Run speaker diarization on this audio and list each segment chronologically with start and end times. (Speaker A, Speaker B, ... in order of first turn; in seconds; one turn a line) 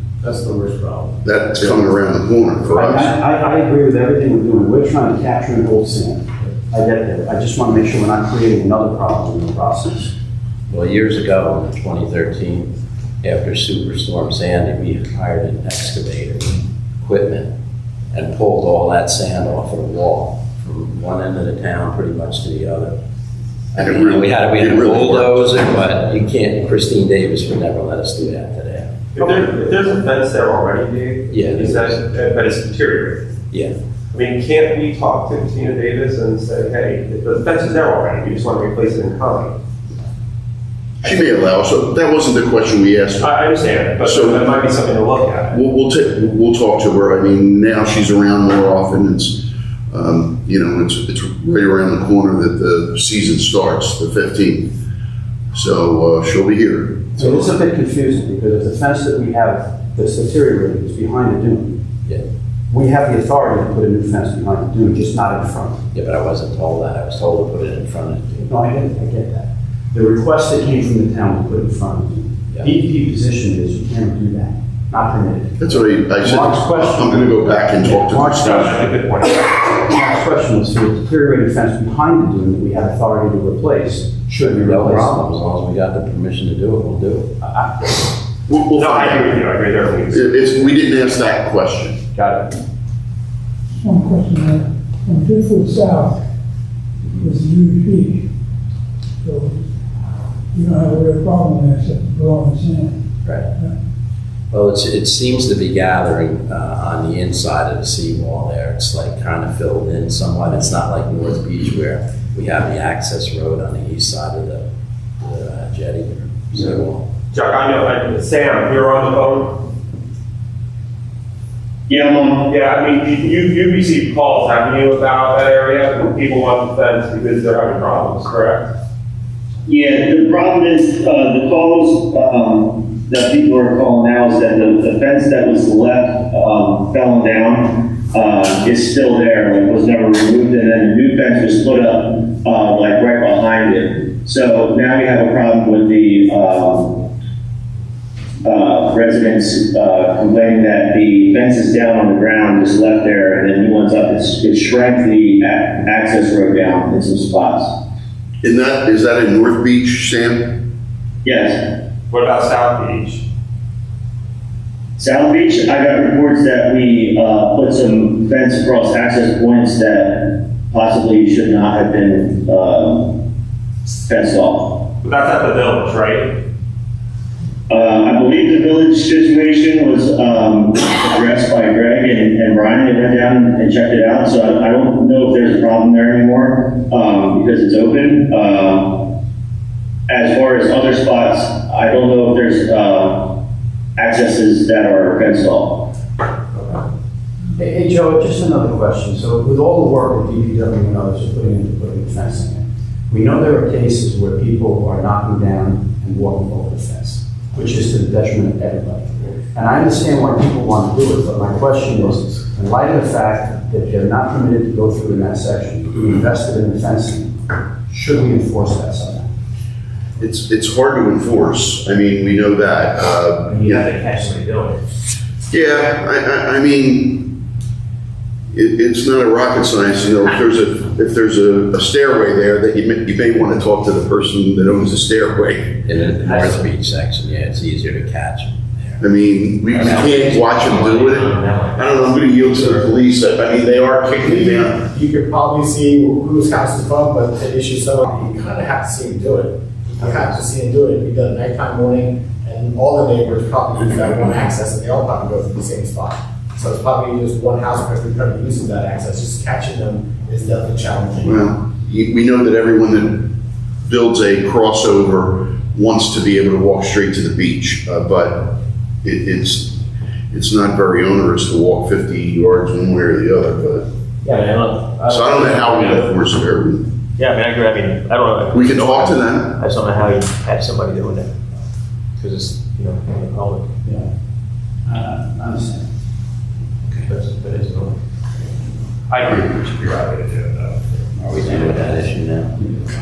Speaker A: 0.2-1.1
Speaker B: 1.2-3.1
Speaker C: 2.7-10.1
Speaker D: 10.7-12.7
Speaker D: 13.2-17.5
Speaker D: 18.1-22.9
Speaker D: 23.7-28.9
Speaker B: 23.8-25.5
Speaker E: 29.1-33.2
Speaker D: 31.3-32.0
Speaker E: 34.1-39.5
Speaker B: 41.0-43.3
Speaker E: 43.2-45.6
Speaker B: 44.0-44.4
Speaker B: 45.5-54.7
Speaker B: 55.5-57.3
Speaker C: 57.2-61.7
Speaker C: 62.7-65.8
Speaker D: 65.9-68.5
Speaker C: 68.5-79.0
Speaker B: 75.6-78.8
Speaker E: 78.4-79.6
Speaker C: 79.6-85.3
Speaker D: 84.6-87.3
Speaker C: 87.4-87.7
Speaker B: 88.5-89.3
Speaker E: 88.7-90.6
Speaker B: 90.1-92.0
Speaker C: 92.1-92.5
Speaker F: 93.8-96.1
Speaker G: 93.8-96.1
Speaker G: 97.2-98.1
Speaker F: 97.2-98.1
Speaker F: 99.2-99.5
Speaker F: 100.5-102.9
Speaker G: 100.6-102.9
Speaker D: 104.5-114.7
Speaker D: 115.2-117.0
Speaker E: 117.3-119.6
Speaker G: 121.9-122.4
Speaker E: 122.5-128.7
Speaker G: 129.7-147.0
Speaker G: 148.4-157.7
Speaker B: 158.4-160.6
Speaker G: 161.2-161.6
Speaker E: 162.1-163.2
Speaker G: 165.0-173.2
Speaker G: 173.9-174.8
Speaker E: 175.0-176.4
Speaker G: 177.7-189.1
Speaker G: 190.1-193.3
Speaker G: 194.0-195.9
Speaker C: 197.6-219.3
Speaker B: 220.2-223.8
Speaker H: 223.5-224.8
Speaker B: 225.5-227.3
Speaker B: 228.5-235.8
Speaker D: 235.8-239.0
Speaker B: 239.0-244.8
Speaker H: 240.1-242.1
Speaker A: 244.2-261.4
Speaker B: 261.2-263.3
Speaker B: 263.9-269.8
Speaker B: 270.3-273.8
Speaker H: 274.2-276.1
Speaker B: 275.1-276.8
Speaker H: 277.2-281.3
Speaker B: 278.5-279.6
Speaker H: 282.2-283.7
Speaker C: 284.9-285.9
Speaker H: 287.1-287.9
Speaker E: 289.1-290.9
Speaker D: 291.1-292.8